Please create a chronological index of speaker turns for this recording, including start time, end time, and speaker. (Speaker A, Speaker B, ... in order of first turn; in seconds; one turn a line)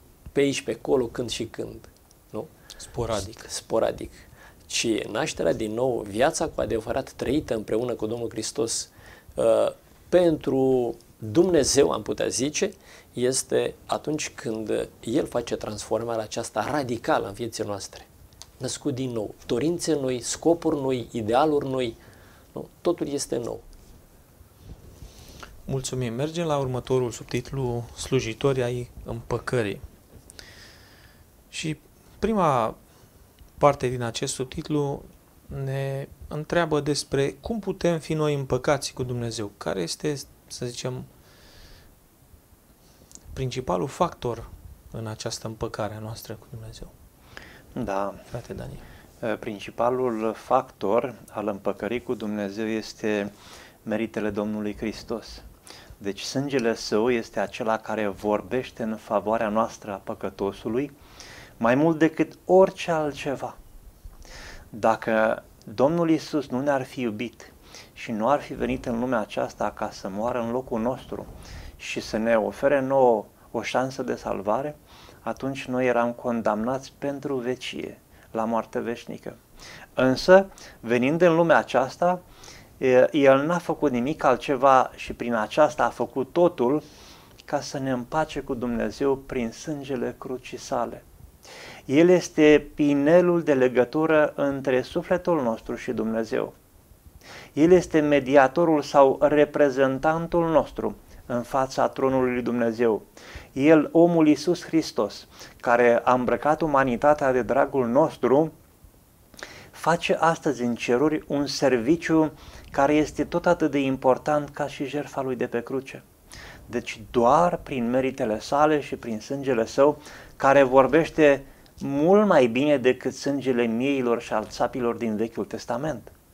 Speaker A: 0.3-2.5
Speaker B: 2.8-3.5
Speaker A: 3.3-18.1
Speaker A: 18.6-22.0
Speaker A: 22.6-23.6
Speaker B: 25.7-29.8
Speaker B: 31.5-32.8
Speaker B: 33.6-41.1
Speaker B: 43.3-46.9
Speaker C: 47.8-48.2
Speaker B: 48.3-48.8
Speaker C: 49.2-53.3
Speaker C: 53.9-55.5
Speaker C: 56.0-60.9
Speaker C: 61.6-63.6
Speaker C: 64.7-79.4
Speaker C: 80.0-82.2
Speaker C: 82.8-86.8
Speaker C: 87.5-91.0
Speaker C: 91.9-96.5
Speaker C: 97.5-108.5
Speaker C: 109.7-116.0
Speaker C: 116.7-126.1